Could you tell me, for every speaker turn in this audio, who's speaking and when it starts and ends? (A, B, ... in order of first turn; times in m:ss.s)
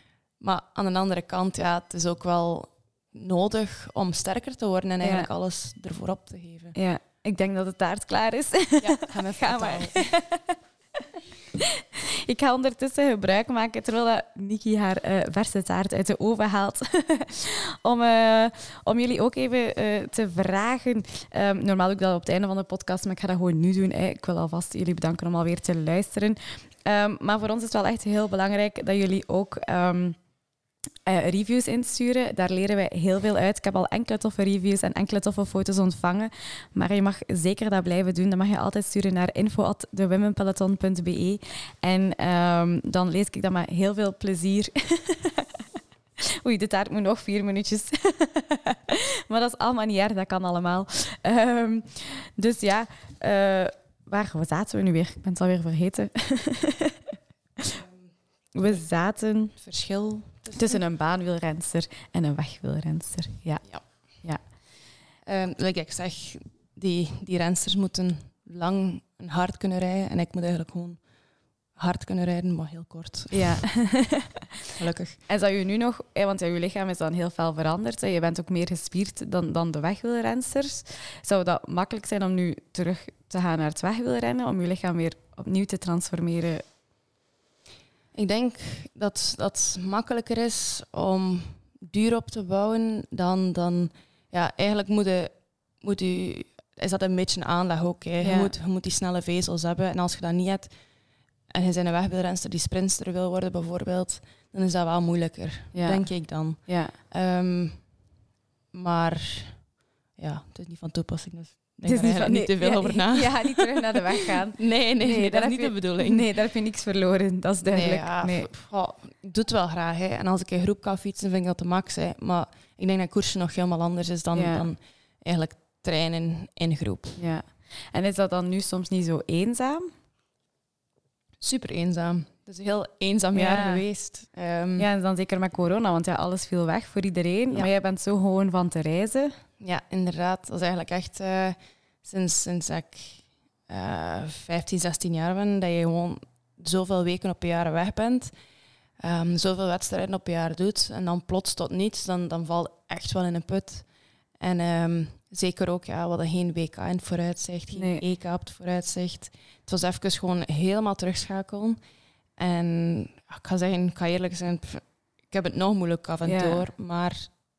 0:00.4-0:06.8 A
0:05.0-0:05.3 B
0:06.7-0:10.6 B
0:08.8-0:10.1 A
0:11.6-0:30.2 B
0:31.1-0:45.4 B
0:46.4-0:57.0 B
0:58.5-0:59.6 B
0:59.6-1:00.8 A
1:00.5-1:04.4 B
1:05.2-1:11.0 A
1:11.8-1:13.7 A
1:13.3-1:14.4 B
1:14.7-1:15.2 A
1:15.3-1:26.6 B
1:28.1-1:40.7 A
1:38.2-1:38.5 B
1:41.5-1:47.9 A
1:45.7-1:47.0 B
1:48.7-1:49.6 A
1:50.2-1:56.2 A
1:51.8-1:58.5 B
1:57.7-2:07.2 A
2:04.3-2:04.7 B
2:07.2-2:09.9 B
2:11.4-2:14.9 A
2:13.3-2:13.8 B
2:14.8-2:19.4 B
2:19.6-2:28.3 A
2:29.0-2:33.9 A
2:34.4-2:41.8 A
2:37.8-2:38.0 B
2:42.4-2:47.4 A
2:46.2-2:46.7 B